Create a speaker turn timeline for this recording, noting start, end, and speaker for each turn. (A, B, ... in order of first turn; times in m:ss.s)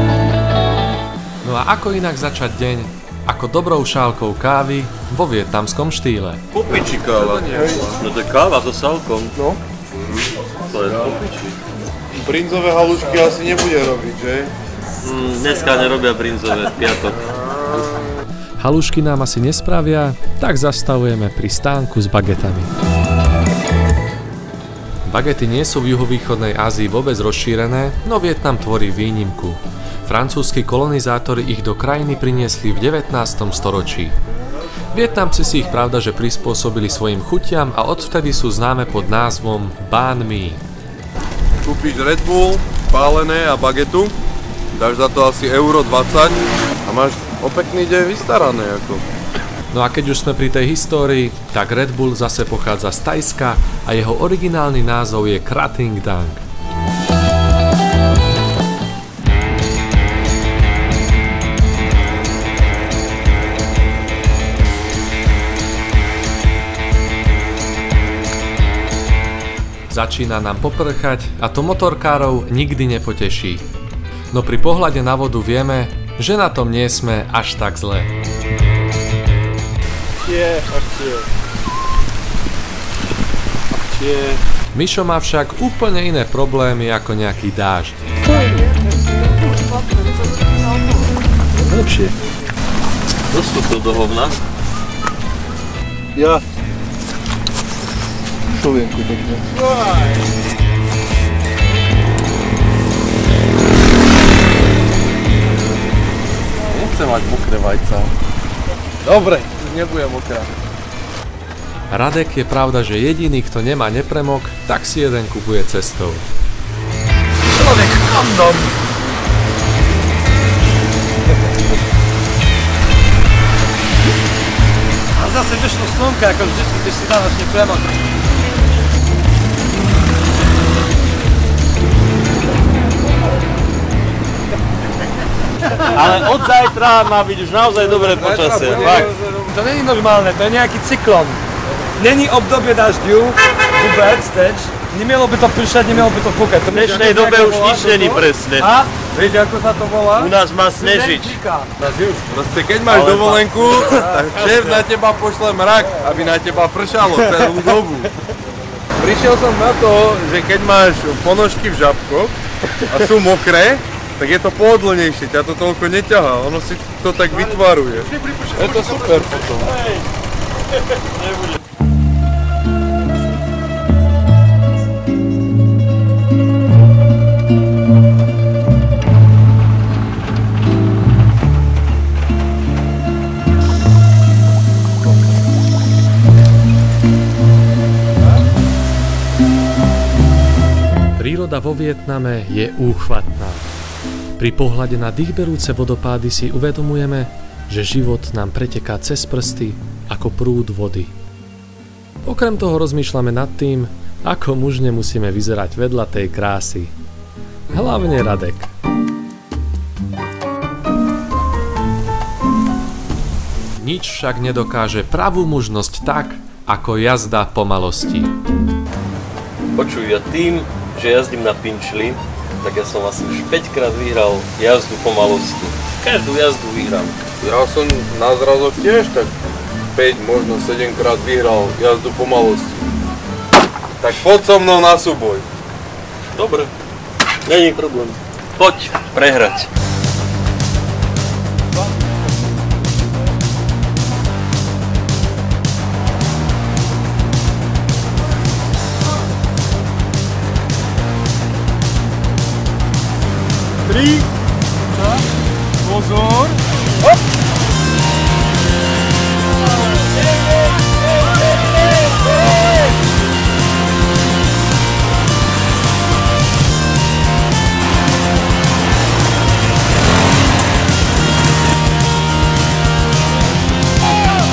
0:01.4-0:06.4 A
0:06.5-0:09.4 B
0:06.7-0:08.0 C
0:09.4-0:10.3 C
0:10.7-0:11.5 B
0:10.9-0:11.2 C
0:12.1-0:14.5 C
0:15.0-0:17.2 B
0:18.6-0:22.7 A
0:25.1-0:34.2 A
0:34.9-0:40.6 A
0:41.6-0:44.2 C
0:44.8-0:49.0 C
0:49.7-0:56.4 A
1:09.9-1:13.6 A
1:14.3-1:18.1 A
1:20.3-1:21.2 D
1:20.6-1:21.0 C
1:23.9-1:24.3 C
1:24.0-1:24.4 D
1:24.7-1:28.0 A
1:33.3-1:34.4 B
1:38.6-1:39.4 C
1:46.7-1:48.1 C
1:49.0-1:50.5 C
1:51.9-1:56.3 A
1:57.5-1:58.7 D
2:05.2-2:07.9 D
2:15.8-2:19.1 B
2:17.9-2:19.4 C
2:18.6-2:21.4 D
2:22.0-2:28.1 D
2:26.7-2:28.7 B
2:27.8-2:28.2 C
2:28.6-2:29.0 D
2:29.1-2:30.3 C
2:30.2-2:31.4 B
2:30.8-2:32.2 D
2:32.3-2:38.1 C
2:33.0-2:34.3 D
2:39.0-2:49.8 C
2:48.0-2:49.6 D
2:49.6-2:50.1 B
2:50.9-2:51.6 B
3:11.2-3:13.8 A
3:14.4-3:21.1 A
3:22.2-3:26.9 A
3:27.7-3:28.7 A
3:33.8-3:38.3 A
3:39.8-3:47.2 B
3:47.4-3:49.3 C
3:49.9-3:52.9 C
3:54.0-3:55.5 C
3:56.4-3:56.7 B
3:57.4-3:59.7 B
4:15.9-4:16.6 D